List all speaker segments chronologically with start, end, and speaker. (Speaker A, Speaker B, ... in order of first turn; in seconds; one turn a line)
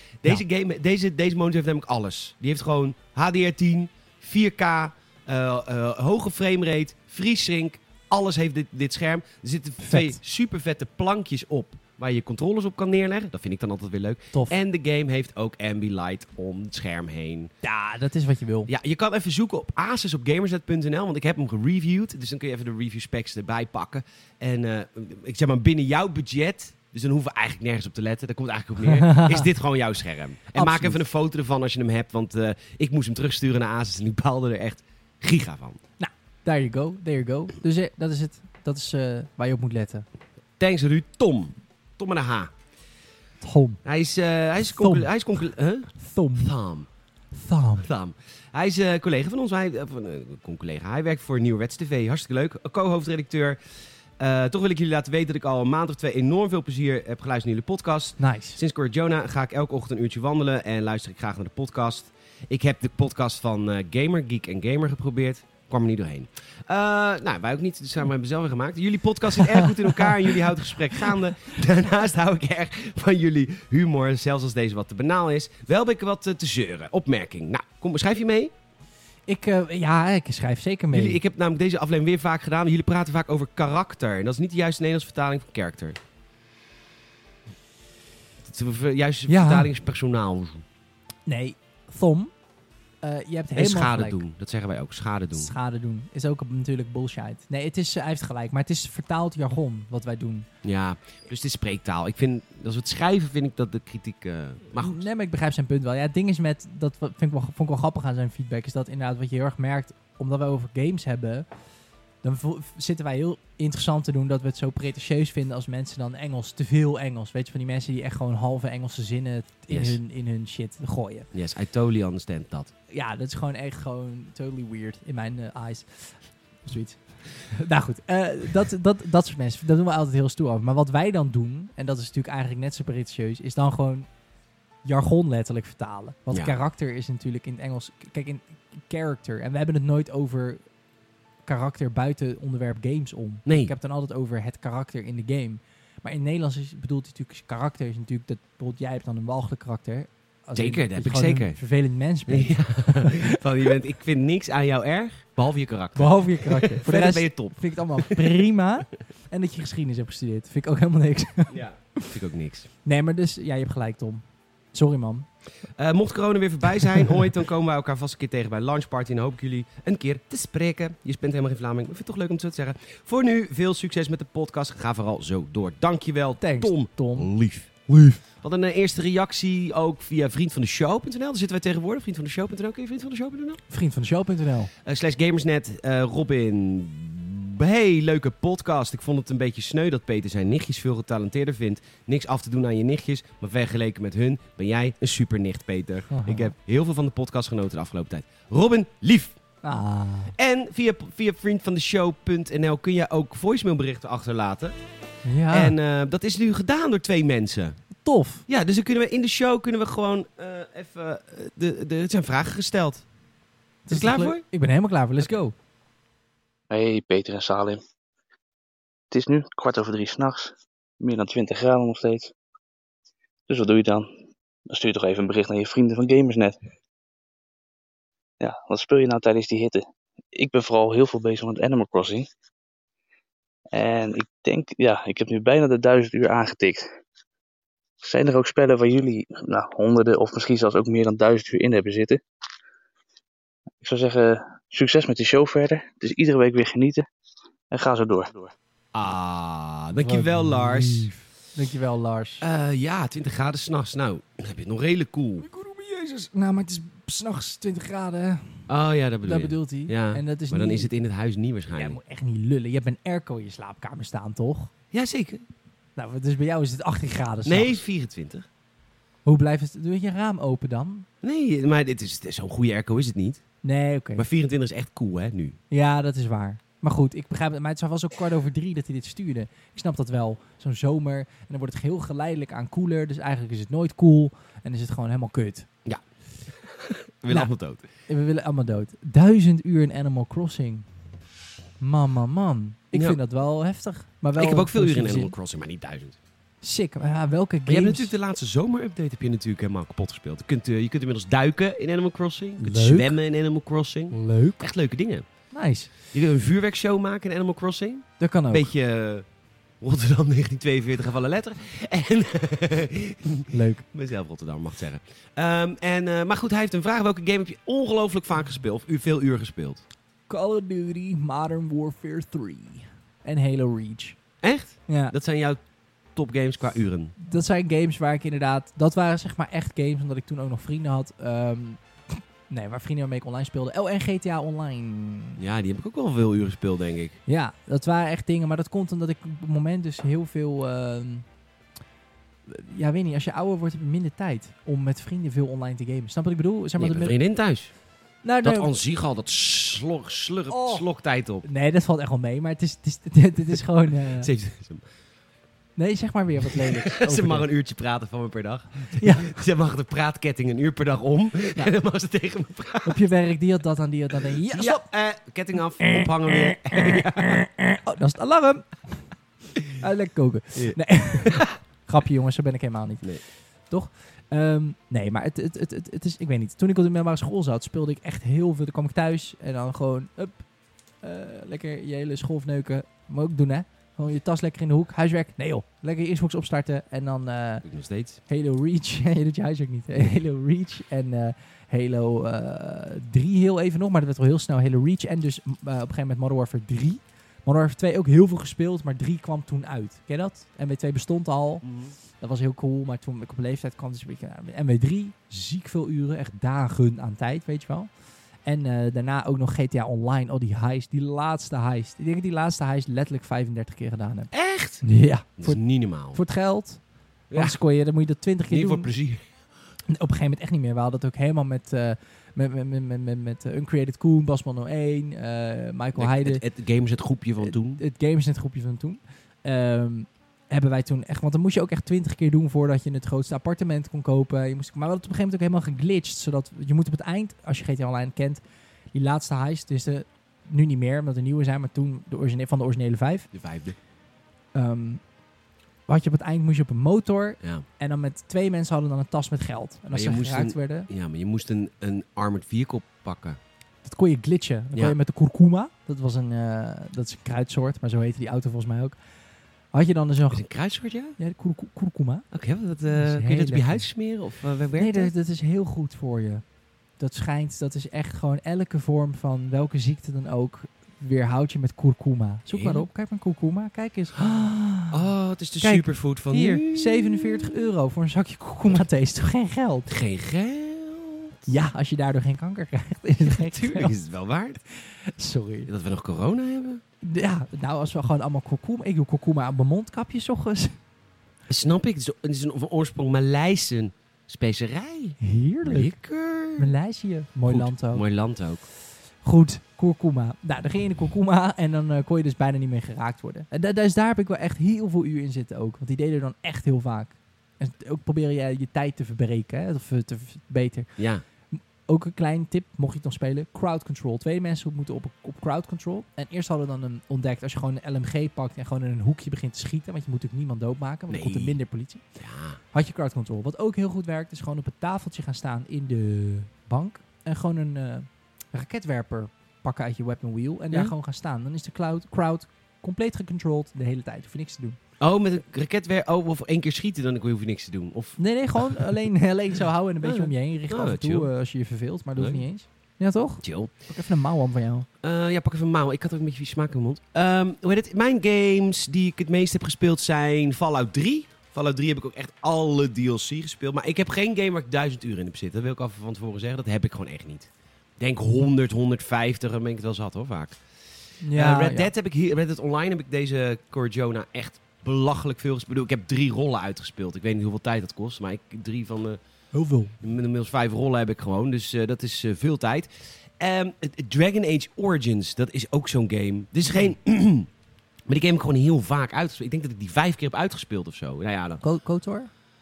Speaker A: 0.2-17.5
Speaker B: 9.8-10.2
Speaker B: 17.6-18.7
Speaker A: 18.7-35.8
Speaker B: 28.8-29.5
Speaker B: 30.5-31.0
Speaker B: 36.0-40.0
Speaker A: 40.6-42.5
Speaker B: 43.4-43.8
Speaker A: 43.8-46.9
Speaker B: 44.6-45.1
Speaker B: 46.0-46.5
Speaker B: 47.3-47.9
Speaker A: 47.8-53.6
Speaker A: 54.2-78.5
Speaker B: 58.2-58.6
Speaker B: 69.6-70.1
Speaker B: 79.3-81.2
Speaker A: 80.9-86.0
Speaker A: 88.4-90.6
Speaker B: 89.3-89.7
Speaker B: 91.3-92.3
Speaker B: 93.0-94.2
Speaker A: 93.5-95.5
Speaker B: 95.3-100.5
Speaker A: 100.6-105.0
Speaker B: 104.8-111.5
Speaker B: 112.2-121.3
Speaker A: 119.7-120.0
Speaker A: 121.3-122.7
Speaker B: 122.9-134.1
Speaker B: 134.8-140.6
Speaker A: 136.3-136.5
Speaker B: 141.4-153.4
Speaker A: 143.4-143.7
Speaker A: 150.6-151.6
Speaker A: 152.3-158.3
Speaker B: 155.9-162.1
Speaker A: 161.5-162.7
Speaker B: 162.8-164.2
Speaker B: 164.7-165.3
Speaker A: 165.8-183.6
Speaker B: 166.8-167.2
Speaker B: 176.4-177.3
Speaker B: 177.9-178.2
Speaker B: 183.7-184.7
Speaker A: 184.8-199.4
Speaker B: 196.1-196.5
Speaker B: 199.6-200.3
Speaker A: 200.3-204.7
Speaker B: 205.2-205.8
Speaker A: 205.5-207.8
Speaker B: 208.0-208.4
Speaker A: 208.5-213.1
Speaker B: 213.8-215.5
Speaker A: 213.9-214.4
Speaker C: 216.7-217.8
Speaker C: 219.1-222.3
Speaker C: 223.5-224.1
Speaker C: 224.7-226.6
Speaker C: 228.4-232.3
Speaker C: 233.7-236.9
Speaker C: 238.0-242.2
Speaker C: 243.8-247.1
Speaker C: 247.7-248.5
Speaker A: 248.9-251.1
Speaker B: 250.0-252.4
Speaker A: 252.4-255.4
Speaker B: 255.4-258.7
Speaker A: 258.7-262.0
Speaker B: 259.2-260.9
Speaker B: 261.7-264.7
Speaker A: 264.9-265.4
Speaker B: 265.9-267.8
Speaker A: 267.4-268.5
Speaker B: 269.2-271.1
Speaker A: 271.2-273.4
Speaker B: 273.6-274.2
Speaker A: 274.1-275.6
Speaker B: 275.7-285.7
Speaker A: 286.6-287.8
Speaker B: 288.1-290.9
Speaker B: 291.8-295.3
Speaker A: 292.9-293.2
Speaker A: 294.4-296.2
Speaker B: 296.6-298.1
Speaker A: 297.7-305.2
Speaker B: 302.6-303.2
Speaker B: 304.1-304.6
Speaker B: 305.5-305.9
Speaker A: 306.1-309.2
Speaker B: 308.2-308.7
Speaker A: 309.8-319.8
Speaker B: 313.5-313.8
Speaker B: 320.3-324.2
Speaker A: 324.4-325.6
Speaker B: 324.9-325.1
Speaker A: 326.1-327.1
Speaker B: 327.2-335.4
Speaker A: 335.4-337.2
Speaker B: 337.3-341.2
Speaker B: 342.5-347.1
Speaker A: 346.8-347.7
Speaker B: 348.2-348.7
Speaker A: 348.4-351.4
Speaker B: 350.5-350.9
Speaker B: 351.4-354.3
Speaker A: 354.2-354.8
Speaker B: 355.8-357.5
Speaker A: 356.5-363.0
Speaker B: 358.9-359.3
Speaker B: 362.8-364.9
Speaker A: 364.5-367.4
Speaker B: 365.8-369.1
Speaker B: 369.7-373.1
Speaker A: 370.6-371.5
Speaker B: 373.7-380.4
Speaker B: 381.0-387.6
Speaker A: 387.6-388.2
Speaker B: 388.3-401.6
Speaker A: 401.6-401.9
Speaker B: 402.2-407.9
Speaker B: 408.4-418.9
Speaker A: 414.3-416.2
Speaker A: 417.3-417.6
Speaker A: 418.5-419.2
Speaker B: 419.9-426.4
Speaker A: 425.9-427.8
Speaker B: 427.4-438.4
Speaker B: 438.9-443.3
Speaker A: 443.3-443.8
Speaker B: 444.5-445.0
Speaker B: 445.9-450.9
Speaker A: 449.9-453.4
Speaker B: 453.8-459.0
Speaker B: 459.7-460.4
Speaker A: 460.3-461.2
Speaker B: 461.2-462.3
Speaker A: 462.3-465.1
Speaker B: 462.9-463.9
Speaker B: 464.8-466.4
Speaker B: 467.0-475.0
Speaker A: 472.5-472.8
Speaker A: 474.9-477.7
Speaker B: 475.6-479.9
Speaker A: 479.9-481.5
Speaker B: 481.5-483.9
Speaker A: 483.2-484.6
Speaker B: 484.8-485.7
Speaker A: 485.7-486.8
Speaker B: 487.0-490.8
Speaker A: 491.5-496.7
Speaker B: 495.2-495.9
Speaker B: 496.6-498.0
Speaker A: 497.5-498.6
Speaker B: 499.2-511.0
Speaker A: 511.0-511.2
Speaker B: 511.5-522.0
Speaker A: 521.1-521.6
Speaker A: 522.2-522.6
Speaker B: 522.7-534.8
Speaker A: 535.0-538.9
Speaker B: 538.2-544.9
Speaker A: 540.0-541.3
Speaker A: 542.2-542.4
Speaker A: 543.4-543.7
Speaker A: 545.0-560.6
Speaker B: 561.2-561.9
Speaker A: 561.3-569.2
Speaker B: 569.5-570.0
Speaker A: 570.0-577.5
Speaker A: 578.1-581.6
Speaker B: 581.6-582.3